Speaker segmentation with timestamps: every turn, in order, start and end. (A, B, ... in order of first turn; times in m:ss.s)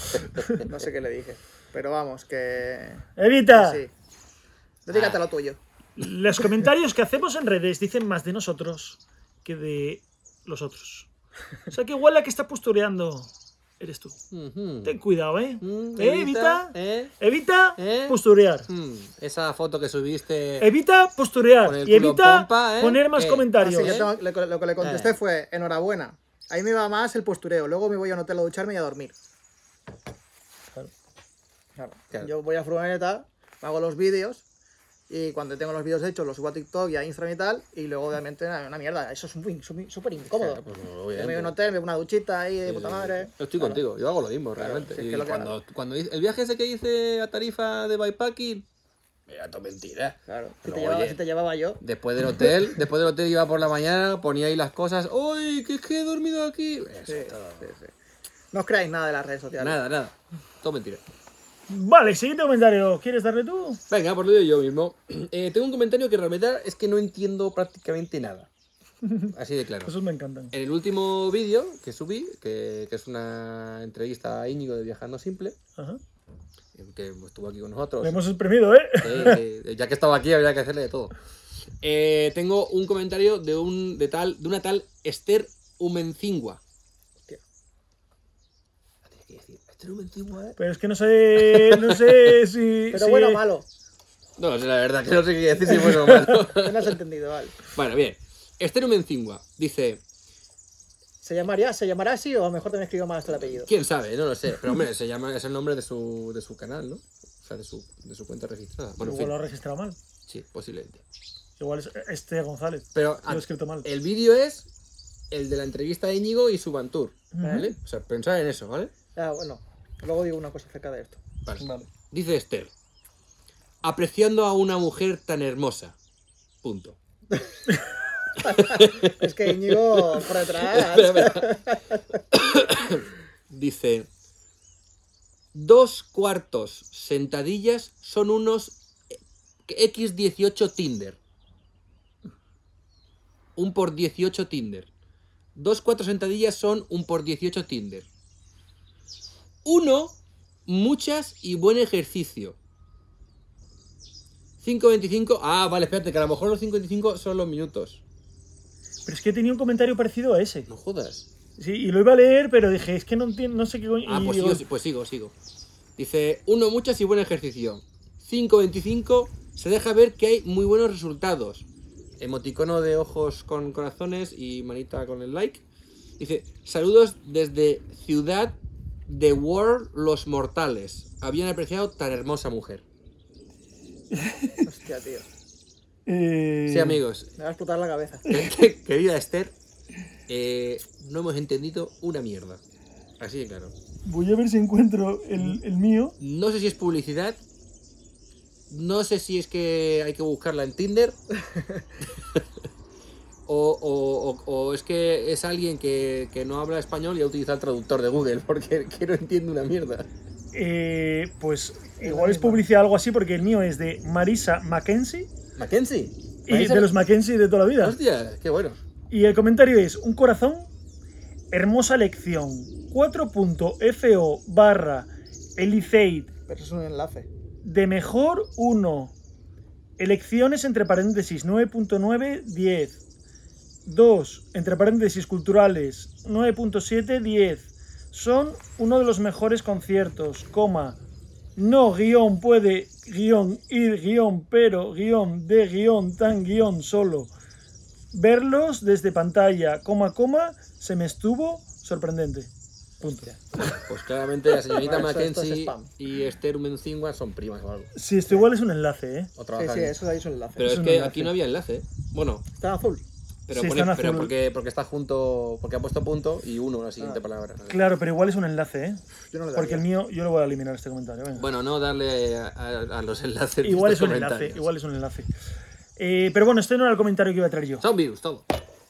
0:00.1-0:00.6 A
0:00.6-0:03.9 B
0:03.2-0:03.8 A
0:04.9-0:05.6 B
0:04.9-0:05.2 C
0:06.0-0:11.1 A
0:11.7-0:14.2 A
0:14.3-0:15.0 C
0:14.8-0:18.7 A
0:15.6-0:17.1 C
0:17.8-0:20.7 C
0:20.6-0:24.0 A
0:21.6-0:24.1 C
0:23.6-0:29.2 B
0:24.8-0:25.1 C
0:31.8-0:34.4 B
0:35.1-0:40.6 B
0:40.2-0:41.6 C
0:41.2-0:43.8 B
0:42.6-0:48.7 C
0:44.6-0:45.6 B
0:49.3-0:51.2 C
0:50.3-0:51.8 B
0:51.8-0:57.7 C
0:57.1-0:57.9 B
0:58.5-0:59.8 B
0:59.6-1:01.0 C
1:01.7-1:03.8 A
1:03.9-1:08.5 C
1:09.0-1:09.3 A
1:09.3-1:09.9 C
1:09.8-1:10.5 A
1:10.5-1:15.6 C
1:16.7-1:18.2 C
1:18.0-1:19.4 A
1:19.0-1:21.1 C
1:21.8-1:26.6 C
1:29.0-1:30.6 C
1:30.6-1:33.4 A
1:31.4-1:32.4 C
1:32.9-1:33.7 B
1:34.4-1:37.0 C
1:35.7-1:36.4 A
1:36.6-1:37.6 B
1:37.7-1:40.0 C
1:41.2-1:43.7 B
1:43.3-1:49.3 C
1:49.0-1:50.0 A
1:50.3-1:51.0 C
1:51.6-1:53.9 A
1:53.0-1:54.7 C
1:55.3-1:58.9 C
1:57.3-1:57.7 A
1:57.4-1:57.7 B
1:59.2-2:01.2 B
2:01.4-2:02.7 C
2:01.6-2:01.9 A
2:03.8-2:06.0 C
2:06.6-2:07.0 C
2:08.4-2:12.2 B
2:08.4-2:11.6 C
2:12.3-2:14.1 C
2:15.5-2:18.8 C
2:19.7-2:21.2 C
2:23.6-2:24.9 C
2:25.6-2:28.1 C
2:29.6-2:32.6 C
2:34.6-2:38.0 C
2:39.1-2:40.7 A
2:40.7-2:41.3 C
2:41.6-2:44.6 A
2:44.1-2:45.3 C
2:46.0-2:51.6 C
2:52.2-2:55.6 C
2:56.2-3:02.8 C
3:04.1-3:04.7 A
3:04.6-3:05.3 B
3:06.1-3:07.0 A
3:06.7-3:07.3 C
3:07.4-3:08.3 B
3:08.3-3:09.6 C
3:10.3-3:12.6 C
3:13.2-3:13.7 C
3:14.1-3:16.2 A
3:16.2-3:17.4 C
3:18.7-3:21.2 C
3:21.6-3:21.8 B
3:22.2-3:22.5 C
3:23.5-3:30.1 C
3:30.5-3:35.3 A
3:32.0-3:32.6 B
3:35.6-3:36.9 C
3:36.5-3:38.0 A
3:37.8-3:38.8 C
3:39.1-3:40.7 A
3:41.5-3:46.3 A
3:46.5-3:47.3 B
3:47.6-3:49.1 A
3:50.0-3:53.0 A
3:53.9-4:01.0 A
4:01.6-4:07.3 A
4:08.1-4:13.3 A
4:13.0-4:13.4 B
4:13.6-4:17.9 C
4:14.7-4:15.9 B
4:18.0-4:19.3 A
4:19.4-4:20.0 C
4:19.6-4:20.7 B
4:20.6-4:22.5 C
4:20.6-4:21.3 A
4:22.6-4:23.0 B
4:23.5-4:27.8 C
4:23.5-4:24.3 A
4:27.7-4:29.0 A
4:29.3-4:29.8 B
4:29.5-4:31.4 A
4:31.4-4:34.6 C
4:33.6-4:35.3 A
4:36.0-4:37.8 A
4:37.8-4:38.5 C